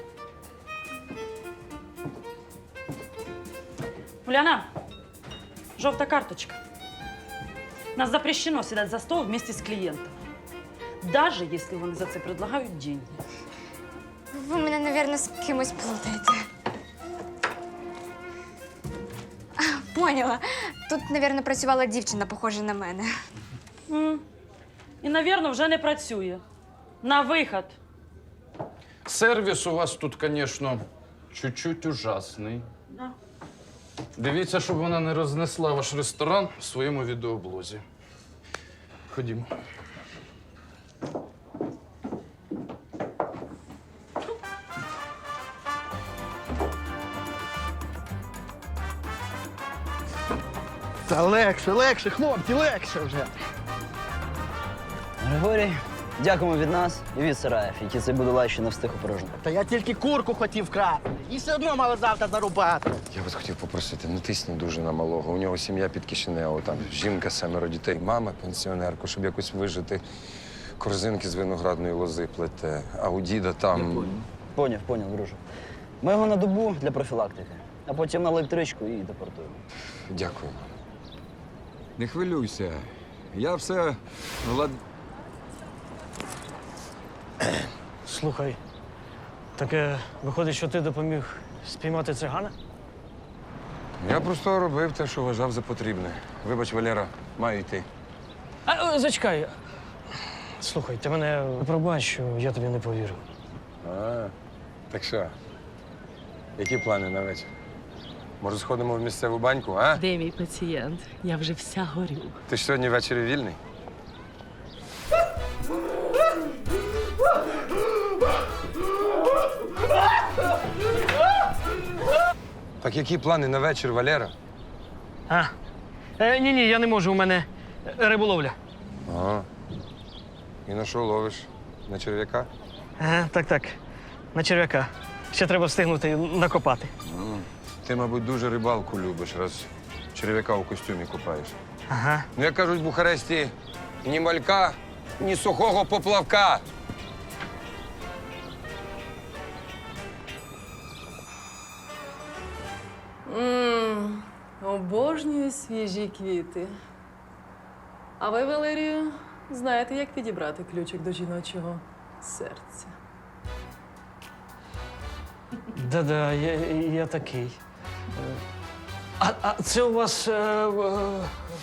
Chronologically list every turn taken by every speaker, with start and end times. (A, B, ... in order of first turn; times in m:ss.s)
0:04.2-0:04.7 A
0:05.8-0:06.6 A
0:08.0-0:10.1 A
0:11.0-0:13.2 A
0:14.3-0:16.4 B
0:19.6-0:23.0 B
0:23.9-0:24.2 A
0:25.0-0:26.4 A
0:27.0-0:27.8 A
0:29.0-0:32.7 C
0:34.2-0:37.8 C
0:39.1-0:39.5 C
0:51.1-0:53.2 D
0:55.2-0:59.3 E
0:59.4-1:02.8 D
1:03.1-1:10.0 F
1:10.8-1:14.1 F
1:13.7-1:15.4 E
1:16.0-1:19.6 E
1:20.1-1:20.6 F
1:22.0-1:24.8 F
1:28.0-1:28.6 G
1:29.6-1:32.5 G
1:34.0-1:37.9 F
1:38.7-1:39.5 G
1:40.6-1:43.2 G
1:43.8-1:44.3 F
1:44.9-1:45.3 F
1:46.6-1:47.5 F
1:48.4-1:50.0 F
1:49.9-1:52.4 H
1:52.5-1:53.6 F
2:02.8-2:04.3 F
2:06.2-2:08.6 G
2:09.1-2:09.5 F
2:10.6-2:12.5 F
2:13.0-2:13.8 G
2:14.3-2:16.9 G
2:17.0-2:21.6 F
2:21.9-2:22.3 G
2:22.3-2:26.6 F
2:33.2-2:36.7 H
2:38.2-2:42.9 H
2:45.7-2:47.6 G
2:49.2-2:51.4 G